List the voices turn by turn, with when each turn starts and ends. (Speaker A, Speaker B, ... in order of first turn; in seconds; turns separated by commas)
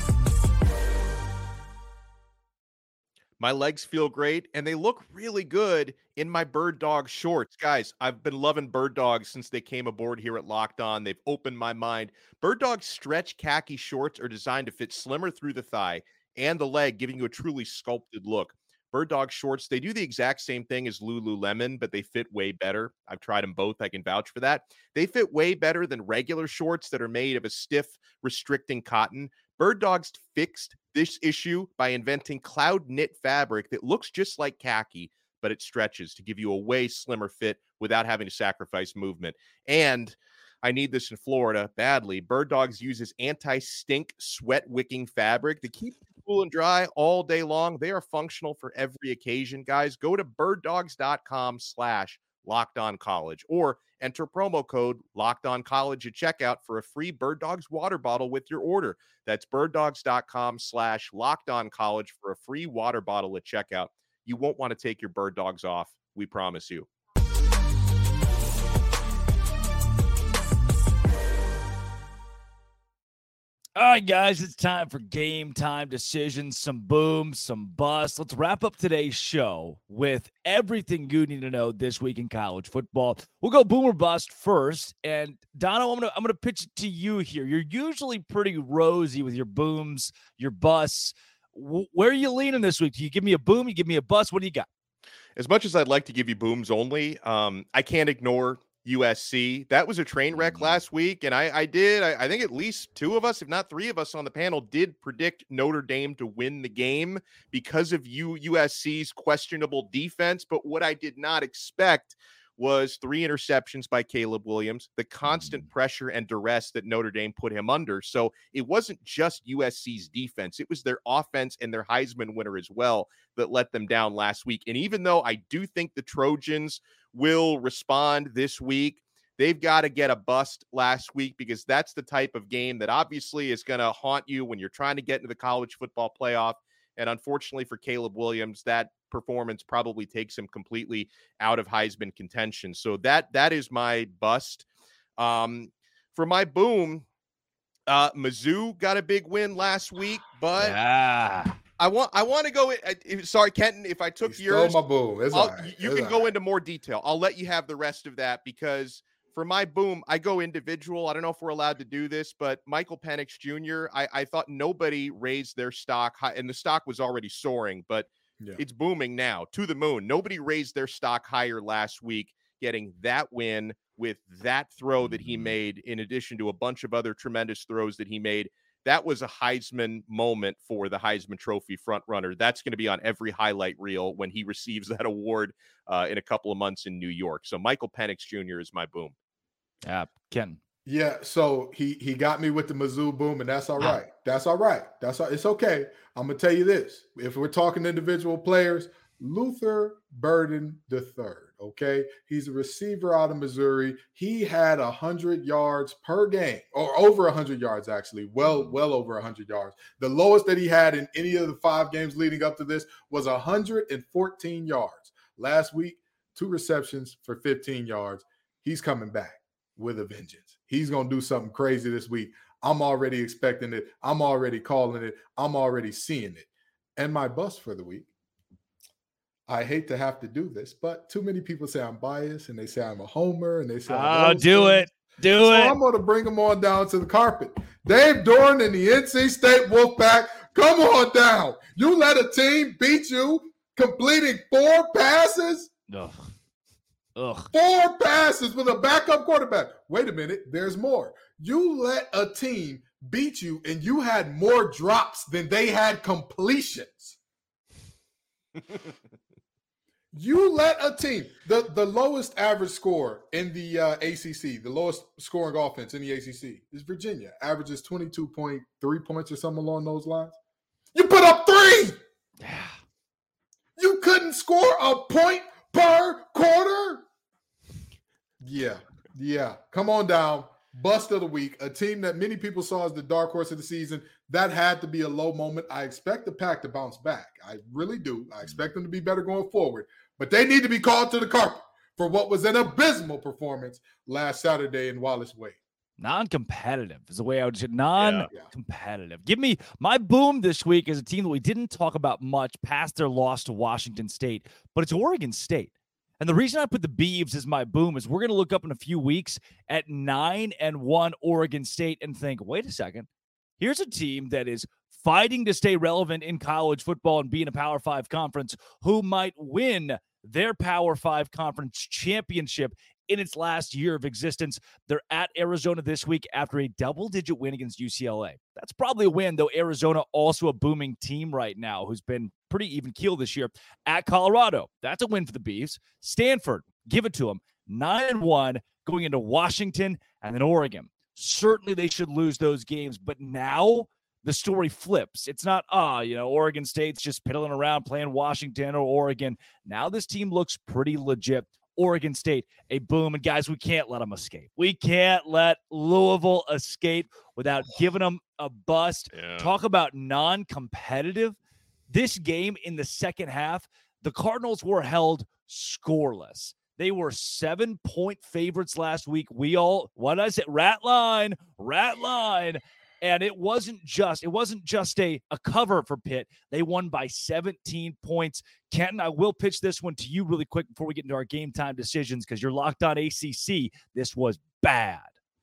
Speaker A: 3.4-66.9, Speaker B: 73.8-94.7, Speaker A: 95.3-144.6, Speaker B: 100.4-100.8, Speaker B: 115.3-115.6, Speaker A: 145.2-147.0, Speaker A: 147.9-150.8, Speaker B: 150.6-151.5, Speaker A: 151.8-154.8, Speaker C: 154.3-156.3, Speaker A: 155.3-189.1, Speaker B: 189.8-190.6, Speaker C: 190.8-228.1, Speaker C: 229.5-234.9, Speaker B: 233.9-235.8, Speaker C: 235.4-245.7, Speaker B: 245.9-246.3, Speaker B: 247.2-247.5, Speaker C: 247.5-257.2, Speaker C: 260.1-270.4, Speaker C: 270.9-272.0, Speaker B: 272.4-272.7, Speaker C: 273.8-277.0, Speaker C: 278.4-295.6, Speaker B: 296.0-313.1, Speaker A: 298.0-298.3, Speaker B: 313.6-361.4, Speaker A: 359.1-359.5, Speaker B: 361.9-385.1